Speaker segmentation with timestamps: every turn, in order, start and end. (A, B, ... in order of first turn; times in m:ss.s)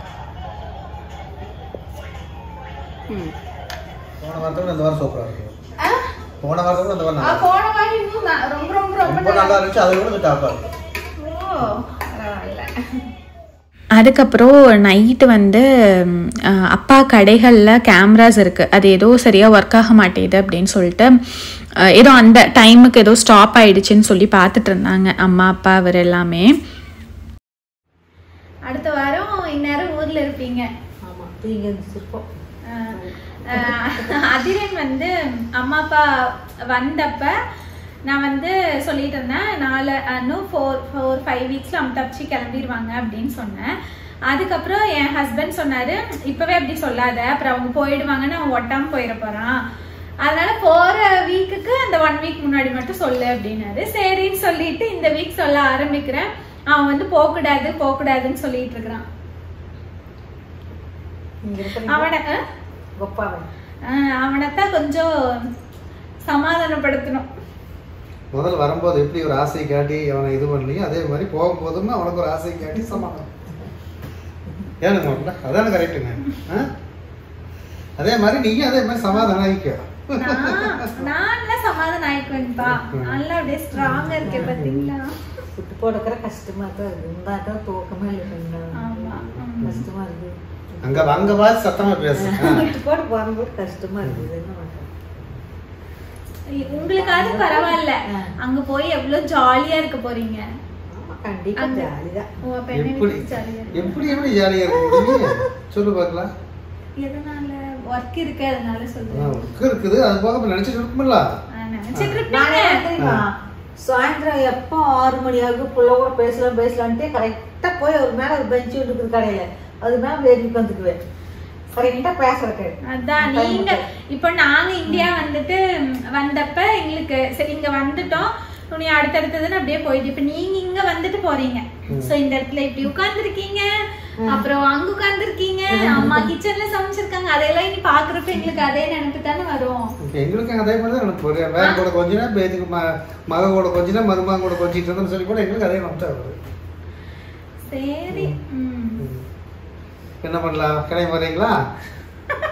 0:04.2-0:05.6 A
0:06.4-0:07.5 A
0:07.2-0:09.6 B
0:09.0-0:10.7 A
0:11.2-0:12.7 B
0:14.0-0:15.6 B
0:16.7-0:21.1 B
0:22.0-0:26.5 B
0:28.7-0:30.7 B
0:31.1-0:32.2 C
0:32.9-0:34.0 C
0:33.6-0:36.0 B
0:36.7-0:37.3 B
0:38.1-0:43.7 B
0:44.3-0:49.5 B
0:50.2-0:59.0 B
1:01.4-1:02.1 C
1:01.9-1:02.3 B
1:03.0-1:03.4 C
1:03.9-1:05.1 B
1:06.2-1:07.3 B
1:08.3-1:13.3 A
1:12.7-1:13.0 C
1:14.8-1:16.7 A
1:18.0-1:21.1 A
1:20.2-1:25.1 B
1:22.6-1:23.2 A
1:23.8-1:24.9 C
1:25.6-1:31.4 C
1:28.8-1:29.8 B
1:29.2-1:29.9 A
1:30.8-1:32.7 A
1:32.1-1:35.3 C
1:34.0-1:34.3 A
1:36.5-1:40.4 B
1:36.7-1:38.3 C
1:41.0-1:42.3 C
1:41.6-1:41.9 B
1:42.5-1:44.4 B
1:42.7-1:46.3 A
1:44.8-1:45.3 C
1:47.0-1:49.4 B
1:49.1-1:51.2 A
1:51.6-1:52.7 B
1:52.0-1:52.3 A
1:52.3-2:01.0 C
1:53.0-1:53.2 A
2:01.8-2:03.8 C
2:01.8-2:02.0 B
2:02.9-2:05.6 B
2:06.1-2:13.7 B
2:11.9-2:12.1 A
2:14.3-2:19.8 B
2:15.8-2:16.3 C
2:20.1-2:26.4 A
2:21.6-2:21.8 B
2:27.7-2:29.1 B
2:28.1-2:28.4 A
2:29.0-2:29.2 A
2:30.2-2:31.6 A